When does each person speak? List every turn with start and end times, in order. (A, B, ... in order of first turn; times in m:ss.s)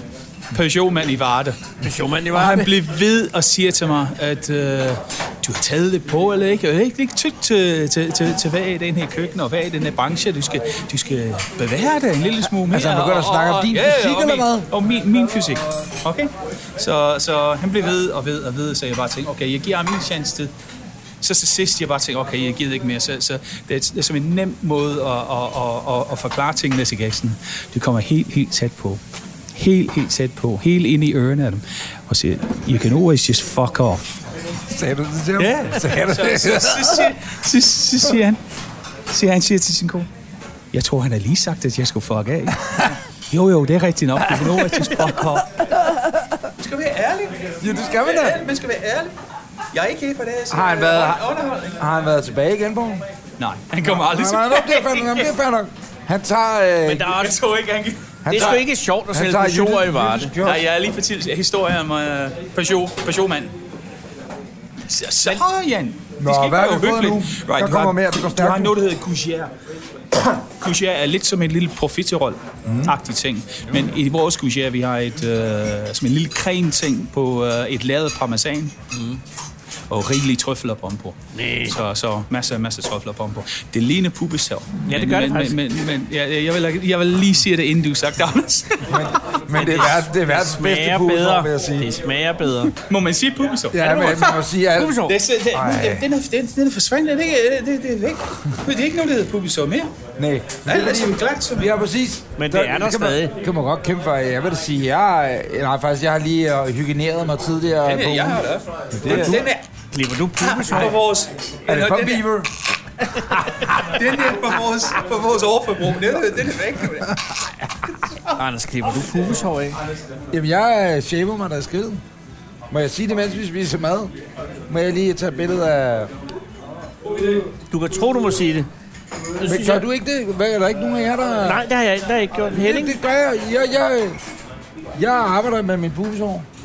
0:00.5-0:01.6 A
0:01.8-0:02.7 B
0:02.3-0:20.5 A
0:12.7-0:14.7 C
0:21.2-0:29.0 A
0:29.6-0:34.2 A
0:34.6-0:37.2 C
0:35.4-0:38.4 A
0:39.1-0:40.1 A
0:40.7-0:45.6 A
0:42.6-0:42.9 C
0:46.6-0:49.1 A
0:47.6-0:48.4 C
0:49.7-0:51.7 A
0:50.5-0:53.1 C
0:53.4-0:55.2 A
0:53.8-0:57.1 C
0:56.9-0:57.4 B
0:57.1-0:58.6 A
0:58.2-1:00.6 C
0:58.3-1:00.3 B
1:00.4-1:03.5 A
1:04.9-1:09.5 A
1:06.2-1:08.8 C
1:10.6-1:18.7 A
1:12.6-1:13.0 C
1:18.9-1:19.2 B
1:19.9-1:29.0 A
1:21.3-1:21.8 B
1:24.9-1:25.6 B
1:28.9-1:31.9 C
1:29.5-1:32.7 B
1:32.9-1:34.4 A
1:33.7-1:36.1 C
1:34.8-1:35.2 B
1:35.0-1:39.9 A
1:40.2-1:48.5 C
1:40.6-1:41.7 A
1:42.4-1:43.3 B
1:47.8-1:49.6 A
1:49.0-1:49.5 C
1:49.9-1:51.0 B
1:50.4-1:52.3 A
1:51.7-1:52.5 C
1:53.7-1:57.2 A
1:58.4-1:59.8 B
2:00.3-2:02.0 C
2:02.7-2:04.1 C
2:04.7-2:06.1 C
2:07.7-2:08.7 B
2:09.4-2:09.8 B
2:09.4-2:11.6 C
2:11.4-2:13.0 B
2:12.5-2:14.2 C
2:14.9-2:16.5 C